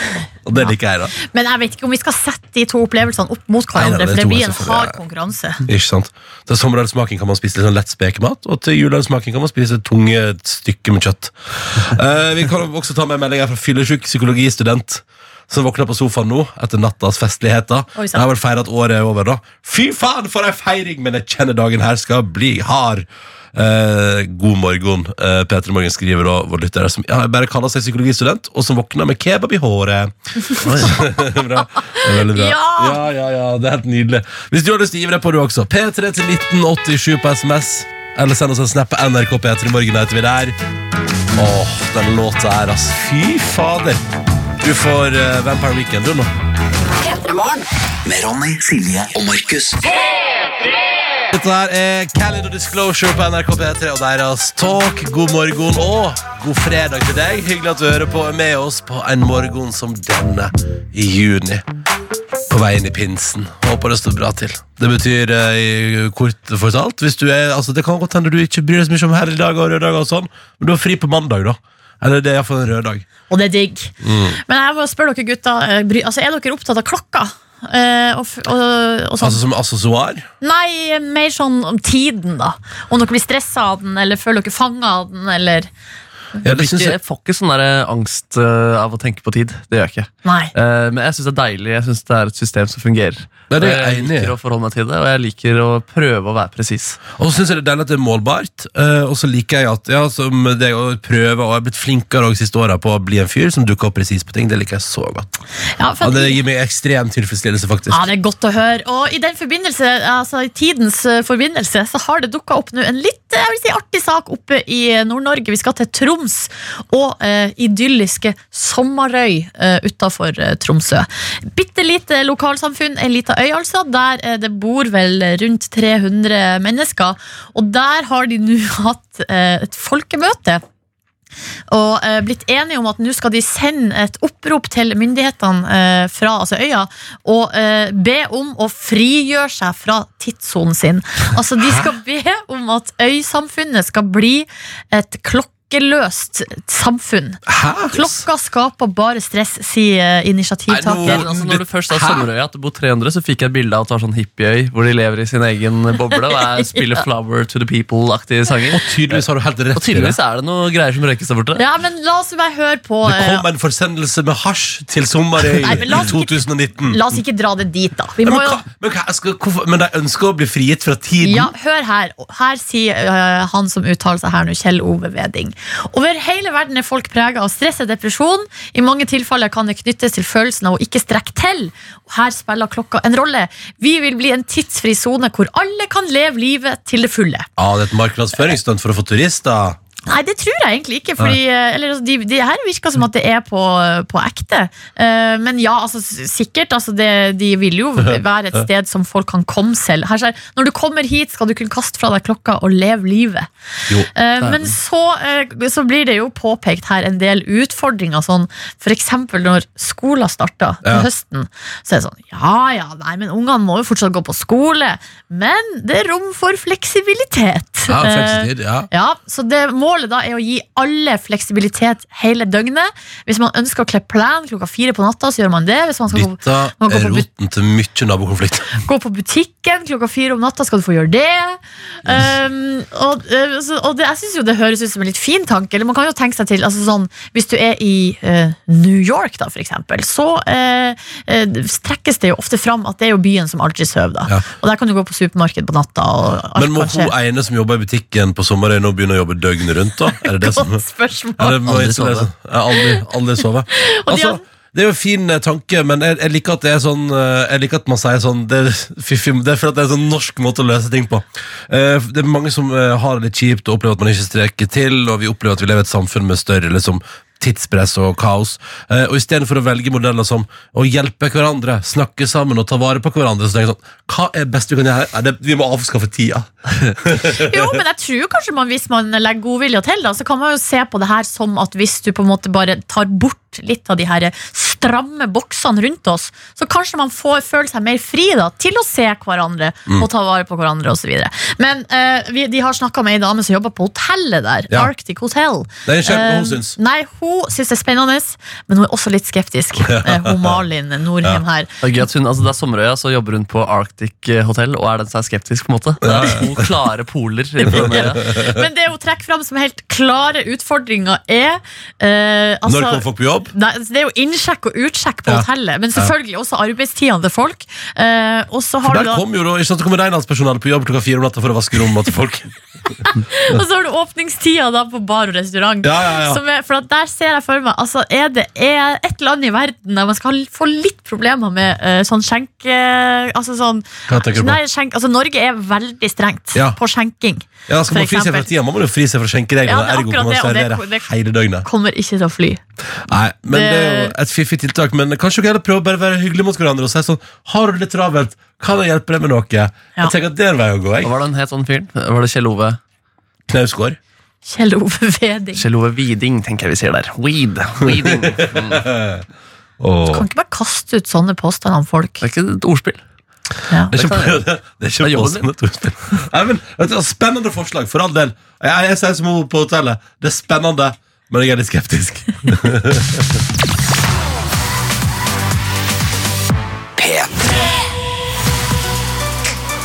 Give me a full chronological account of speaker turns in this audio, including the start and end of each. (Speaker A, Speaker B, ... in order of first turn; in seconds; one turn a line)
Speaker A: 0.5-1.1
Speaker B: 0.6-5.6
Speaker A: 3.7-5.0
Speaker A: 5.6-40.6
Speaker B: 17.9-18.2
Speaker C: 30.6-30.9
Speaker B: 31.8-33.0
Speaker A: 41.3-44.0
Speaker A: 44.6-46.3
Speaker D: 47.0-49.9
Speaker A: 51.3-61.6
Speaker A: 62.5-73.1
Speaker B: 73.3-79.4
Speaker A: 74.0-74.4
Speaker A: 79.2-80.3
Speaker B: 80.4-85.7
Speaker A: 86.4-87.0
Speaker C: 86.5-97.0
Speaker B: 90.2-90.5
Speaker A: 93.5-94.3
Speaker A: 97.2-105.3
Speaker B: 105.8-106.4
Speaker A: 106.0-108.1
Speaker B: 107.9-130.6
Speaker B: 131.7-151.2
Speaker A: 147.5-148.2
Speaker A: 150.7-152.3
Speaker C: 151.0-159.2
Speaker A: 158.7-160.2
Speaker C: 159.8-161.6
Speaker B: 161.6-163.4
Speaker A: 163.1-167.2
Speaker B: 165.6-168.6
Speaker A: 168.2-171.5
Speaker B: 171.2-187.5
Speaker A: 187.6-189.8
Speaker B: 190.1-203.5
Speaker A: 198.0-198.7
Speaker B: 204.1-227.3
Speaker A: 217.9-218.9
Speaker A: 226.1-228.8
Speaker B: 228.8-247.1
Speaker A: 246.6-250.8
Speaker B: 250.2-251.6
Speaker A: 251.4-277.8
Speaker C: 251.7-252.3
Speaker B: 253.7-254.4
Speaker B: 277.3-301.8
Speaker A: 295.9-296.8
Speaker A: 299.8-300.6
Speaker C: 301.8-308.3
Speaker A: 306.0-306.5
Speaker B: 307.6-319.2
Speaker A: 307.8-308.6
Speaker A: 312.7-313.5
Speaker A: 318.8-322.5
Speaker B: 323.1-338.5
Speaker A: 325.8-326.4
Speaker A: 334.1-334.6
Speaker A: 337.7-341.7
Speaker B: 339.6-341.1
Speaker B: 341.6-342.6
Speaker A: 343.1-351.1
Speaker B: 343.5-344.1
Speaker C: 351.0-352.8
Speaker A: 353.5-354.0
Speaker B: 354.4-355.6
Speaker C: 355.6-358.8
Speaker A: 357.9-359.2
Speaker A: 359.8-360.2
Speaker B: 360.1-362.2
Speaker C: 362.2-363.0
Speaker A: 363.9-373.4
Speaker C: 363.9-364.4
Speaker C: 365.0-365.5
Speaker D: 377.0-377.6